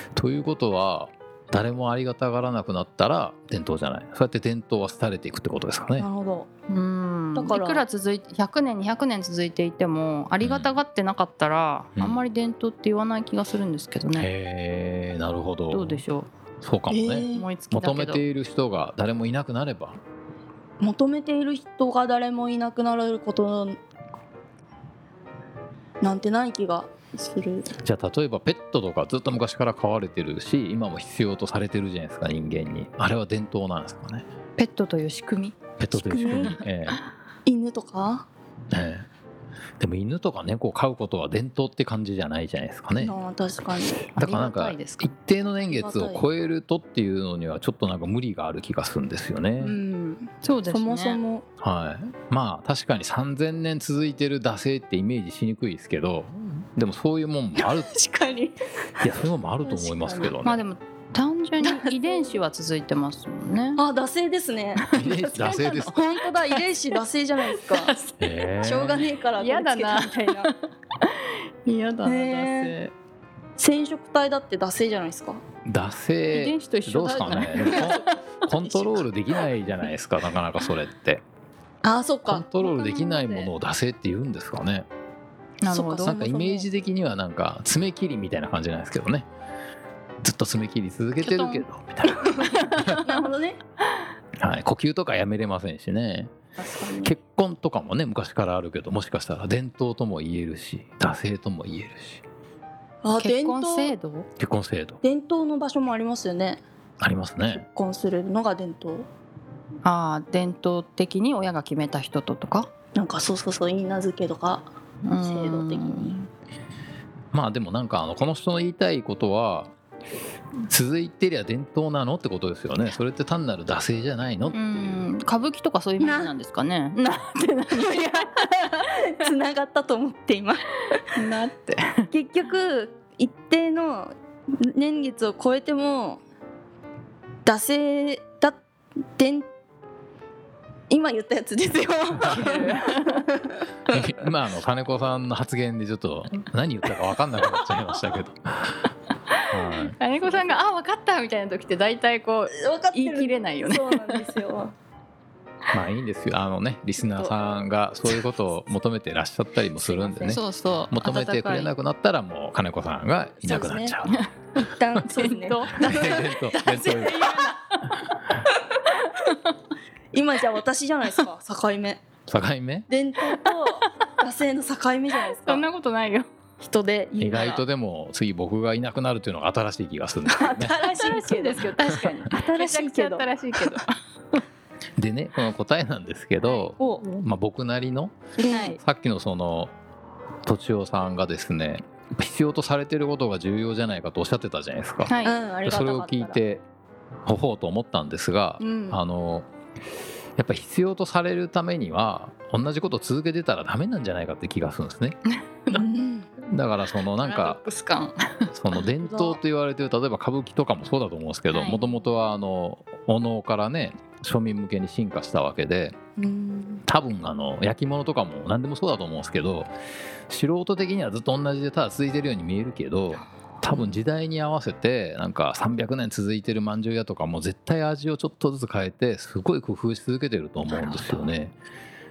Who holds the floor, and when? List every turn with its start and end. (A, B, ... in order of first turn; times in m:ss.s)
0:00.2-0:06.1 A
0:06.0-0:06.5 B
0:06.7-0:14.3 C
0:07.4-0:07.8 B
0:10.4-0:10.7 A
0:12.0-0:12.2 A
0:14.1-0:16.0 A
0:15.7-0:16.3 C
0:16.6-0:20.0 A
0:16.9-0:17.5 B
0:17.3-0:18.2 C
0:20.8-0:23.8 B
0:26.0-0:27.7 B
0:27.8-0:34.2 A
0:34.6-0:36.6 C
0:35.8-0:37.0 A
0:36.0-0:36.6 B
0:37.4-0:38.3 B
0:38.7-0:39.1 A
0:39.8-0:43.2 A
0:43.0-0:44.1 B
0:44.2-0:45.1 C
0:44.2-0:49.8 A
0:45.6-0:46.2 B
0:49.6-0:51.4 B
0:50.4-0:51.2 C
0:51.6-0:57.9 A
0:57.6-0:58.6 B
0:59.0-1:00.6 A
0:59.6-1:00.4 B
1:00.4-1:03.8 C
1:01.6-1:02.4 B
1:03.8-1:04.8 B
1:04.8-1:06.0 C
1:04.9-1:06.0 A
1:05.9-1:08.0 B
1:07.7-1:08.3 C
1:08.2-1:09.0 A
1:08.6-1:10.5 B
1:09.4-1:12.9 C
1:12.0-1:12.7 B
1:13.6-1:15.4 B
1:15.7-1:21.2 A
1:16.3-1:18.2 C
1:17.7-1:19.0 B
1:21.8-1:22.5 B
1:22.3-1:24.9 A
1:22.6-1:23.5 C
1:25.6-1:26.2 C
1:25.6-1:26.7 B
1:26.0-1:29.3 A
1:30.2-1:33.0 A
1:31.2-1:33.2 C
1:33.0-1:33.6 B
1:34.4-1:36.3 A
1:36.6-1:37.2 B
1:37.0-1:42.2 A
1:43.0-1:43.9 B
1:43.2-1:44.3 C
1:44.4-1:45.0 A
1:45.0-1:46.6 B
1:47.0-1:47.7 A
1:47.6-1:49.1 B
1:49.8-1:52.7 C
1:53.0-1:54.7 B
1:55.0-1:56.3 C
1:55.2-1:56.1 B
1:57.3-1:59.7 A
2:00.7-2:04.6 A
2:04.5-2:09.0 C
2:06.0-2:06.3 B
2:08.2-2:10.6 B
2:11.1-2:12.1 C
2:12.1-2:16.2 B
2:17.4-2:18.6 B
2:19.2-2:19.5 B
2:20.9-2:24.0 B
2:22.2-2:23.2 C
2:23.9-2:28.9 A
2:29.3-2:34.2 C
2:29.5-2:30.0 A
2:30.2-2:30.6 B
2:32.6-2:34.7 B
2:35.7-2:44.3 A
2:37.0-2:37.3 B
2:39.8-2:40.4 B
2:40.3-2:41.7 C
2:43.4-2:44.0 B
2:44.6-2:47.6 B
2:45.1-2:46.7 C
2:45.7-2:47.4 A
2:47.3-2:48.2 C
2:48.9-2:49.4 C
2:50.1-2:52.0 B
2:52.3-2:52.9 A
2:52.9-2:55.6 B
2:55.3-2:56.3 C
2:56.6-2:57.6 B
2:57.2-3:00.7 A
3:00.3-3:01.7 B
3:00.5-3:04.4 C
3:02.2-3:03.7 B
3:05.0-3:08.2 A
3:06.4-3:07.2 C
3:06.8-3:07.0 B
3:08.4-3:08.8 B
3:08.5-3:08.8 C
3:08.8-3:09.7 A
3:10.5-3:15.1 A
3:15.1-3:15.4 C
3:15.2-3:16.4 B
3:15.6-3:16.6 A
3:17.3-3:19.5 A
3:18.6-3:19.0 B
3:20.4-3:25.2 A
3:25.7-3:26.3 B
3:26.5-3:27.6 A
3:27.0-3:28.5 C
3:28.5-3:36.0 A
3:29.0-3:29.4 B
3:31.5-3:31.9 C
3:36.2-3:36.8 B
3:36.9-3:39.7 A
3:40.3-3:51.6 A
3:50.8-3:51.3 B